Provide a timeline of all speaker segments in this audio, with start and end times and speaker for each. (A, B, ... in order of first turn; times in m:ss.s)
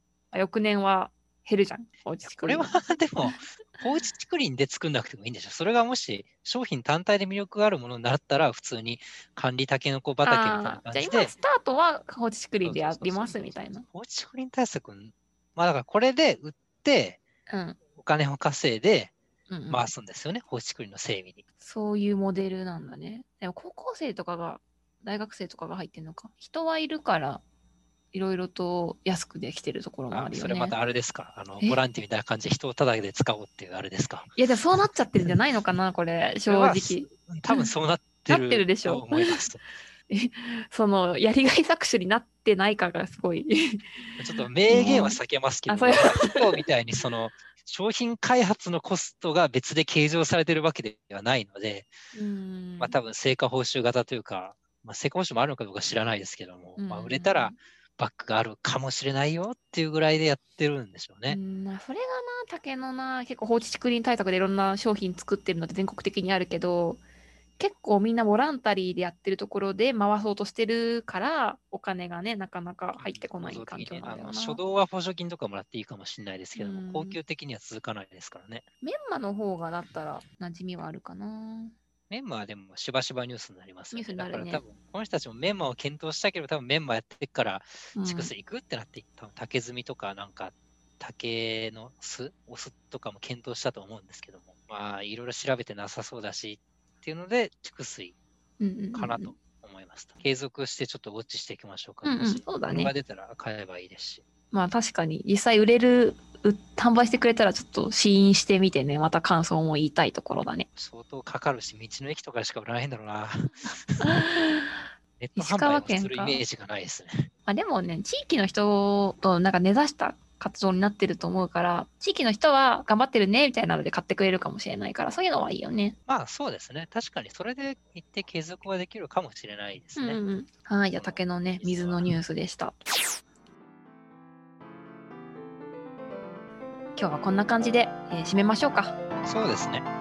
0:00.3-0:03.4 A
0:02.2-0:11.3 B
0:10.2-0:13.8 A
0:12.6-0:17.2 B
0:17.5-0:17.8 A
0:17.9-0:19.1 B
0:19.5-0:19.8 A
0:19.7-0:21.4 B
0:21.6-0:27.4 A
0:28.1-0:30.8 A
0:30.1-0:34.3 B
0:34.4-0:37.7 A
0:36.4-0:39.6 B
0:38.3-0:39.4 A
0:40.1-0:46.6 A
0:44.2-0:51.9 B
0:52.1-0:53.0 A
0:52.8-1:01.4 B
0:56.8-0:57.6 A
1:01.3-1:07.0 A
1:07.6-1:14.6 A
1:13.0-1:18.6 B
1:16.6-1:17.2 A
1:18.8-1:21.7 A
1:22.1-1:38.2 B
1:23.9-1:24.6 A
1:28.0-1:28.3 A
1:38.6-1:39.3 A
1:38.9-1:44.2 B
1:42.0-1:42.9 A
1:44.5-1:50.7 A
1:50.8-1:54.1 B
1:54.0-1:54.8 A
1:55.2-1:57.3 B
1:55.4-1:56.4 A
1:57.5-2:06.0 A
2:06.1-2:10.2 B
2:10.0-2:13.2 A
2:10.9-2:12.1 B
2:17.0-2:18.9 A
2:19.2-2:19.9 B